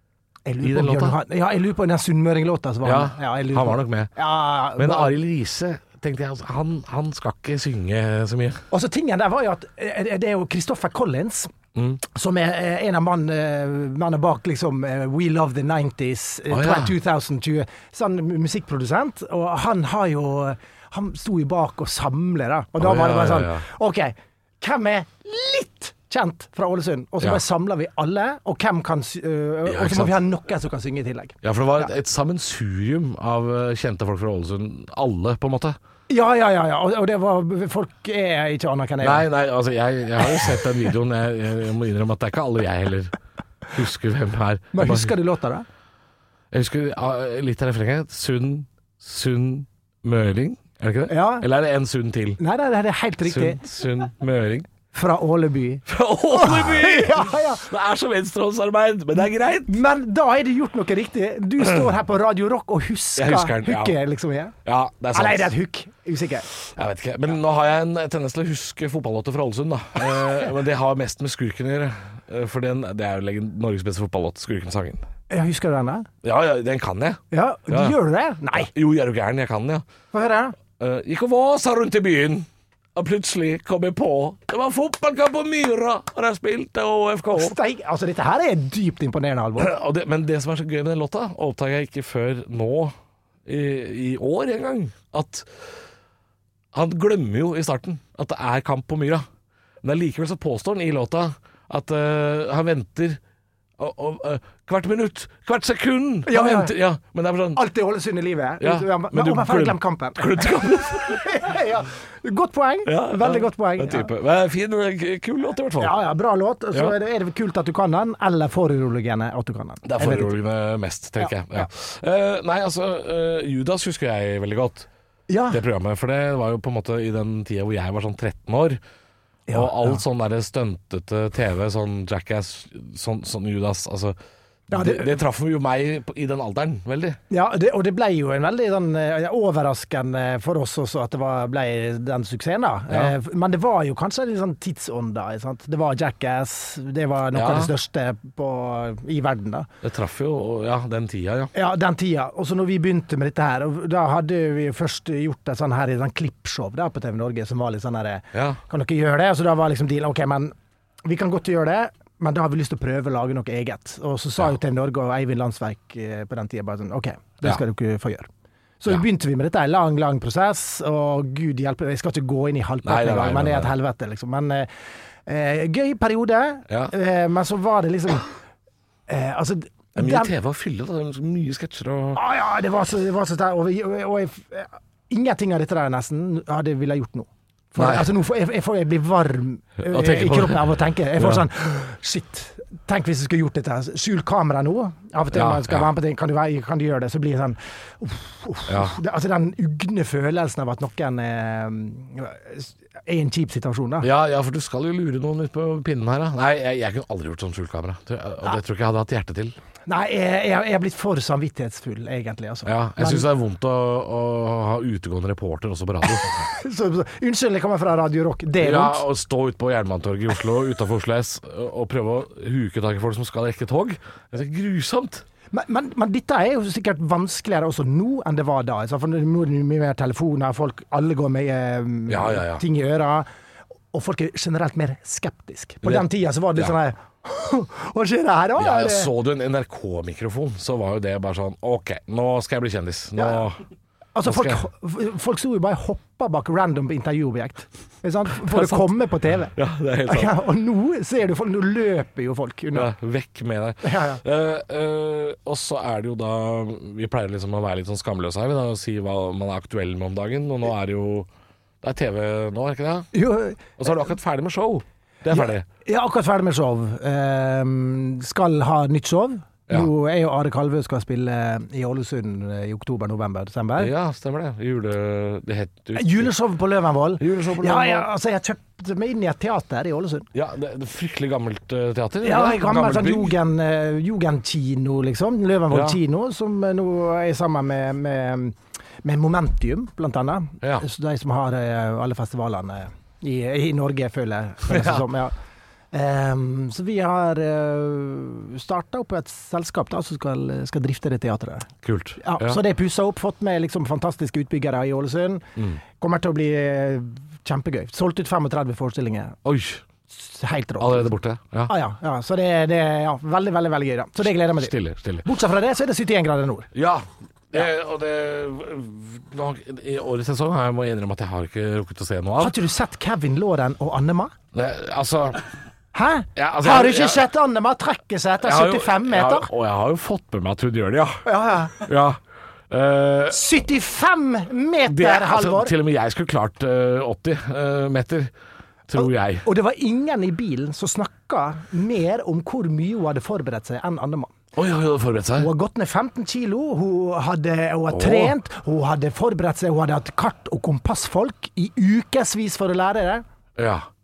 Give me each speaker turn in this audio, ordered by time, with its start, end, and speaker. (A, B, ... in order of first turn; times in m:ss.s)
0:00.4-0:05.1 A
0:00.6-0:01.2 B
0:02.8-0:04.1 B
0:04.8-0:08.6 B
0:08.7-0:11.5 A
0:11.7-0:12.0 B
0:12.1-0:31.9 A
0:16.5-0:16.9 B
0:22.8-0:23.6 B
0:29.6-0:30.2 B
0:31.4-0:35.8 B
0:36.1-0:39.2 A
0:39.0-0:43.2 B
0:43.7-0:45.1 B
0:44.7-0:45.6 A
0:46.5-0:52.4 B
0:51.1-0:51.5 A
0:52.4-0:53.6 A
0:53.2-0:54.7 B
0:54.9-0:57.7 A
0:55.8-0:59.8 B
0:59.7-1:04.5 A
1:03.2-1:04.0 B
1:04.6-1:05.5 B
1:05.1-1:06.5 A
1:06.7-1:15.0 B
1:15.3-1:16.1 A
1:16.2-1:18.0 B
1:17.3-1:18.7 A
1:18.5-1:19.8 B
1:20.1-1:20.6 A
1:20.8-1:27.6 B
1:27.3-1:29.7 A
1:29.6-1:32.9 B
1:33.4-1:35.5 B
1:36.7-1:39.2 B
1:39.8-1:43.2 B
1:43.8-1:47.6 B
1:46.3-1:46.7 A
1:47.6-1:54.1 A
1:48.6-1:51.3 B
1:52.8-1:56.0 B
1:55.8-2:00.4 A
1:59.8-2:04.9 B
2:01.2-2:01.7 A
2:05.3-2:05.6 A
2:05.5-2:08.8 B
2:09.5-2:10.0 A
2:09.5-2:14.2 B
2:14.7-2:17.2 B
2:14.7-2:15.2 A
2:17.3-2:29.7 A
2:22.9-2:23.1 B
2:27.3-2:27.7 B
2:29.8-2:31.5 B
2:31.5-2:40.5 A
2:38.3-2:38.6 B
2:41.0-2:48.3 A
2:48.8-2:54.7 A
2:52.8-2:53.7 B
2:55.2-2:58.3 A
2:59.1-3:00.3 A
3:00.0-3:02.2 B
3:02.1-3:24.1 A
3:07.8-3:08.1 B
3:09.8-3:11.4 B
3:15.3-3:15.9 B
3:18.7-3:19.0 B
3:24.0-3:29.6 B
3:29.9-3:33.3 A
3:32.6-3:36.5 B
3:36.5-3:39.0 A
3:38.6-3:45.2 B
3:45.5-3:53.3 A
3:52.1-3:52.6 B
3:53.9-3:59.1 A
3:55.8-3:56.7 B
3:58.6-4:03.6 B
4:04.1-4:09.5 A
4:04.2-4:04.6 B
4:08.4-4:08.9 B
4:09.5-4:10.3 B
4:10.0-4:12.9 A
4:12.7-4:21.3 B
4:13.8-4:14.2 A
4:21.8-4:23.1 B
4:23.1-4:23.9 A
4:23.8-4:25.6 B
4:25.3-4:33.9 A
4:33.8-4:36.3 B
4:35.9-4:40.3 A
4:37.2-4:38.1 B
4:40.3-4:43.4 B
4:42.2-4:55.3 A
4:45.7-4:46.0 B
4:54.7-4:55.0 B
4:55.9-5:01.7 A
5:01.8-5:02.6 B
5:02.2-5:09.4 A
5:09.4-5:09.8 B
5:10.1-5:11.1 A
5:10.8-5:11.7 B
5:11.7-5:16.7 A
5:14.4-5:15.2 B
5:16.7-5:22.5 B
5:22.4-5:24.3 A
5:24.5-5:25.4 B
5:25.9-5:29.5 A
5:26.4-5:27.3 B
5:28.4-5:31.2 B
5:31.2-5:31.8 A
5:31.8-5:32.2 B
5:32.7-5:33.6 B
5:33.3-5:35.7 A
5:34.8-5:38.3 B
5:38.9-5:39.4 B
5:39.0-5:44.3 A
5:44.6-5:45.5 B
5:45.4-5:53.2 A
5:47.9-5:48.3 B
5:53.6-5:53.9 B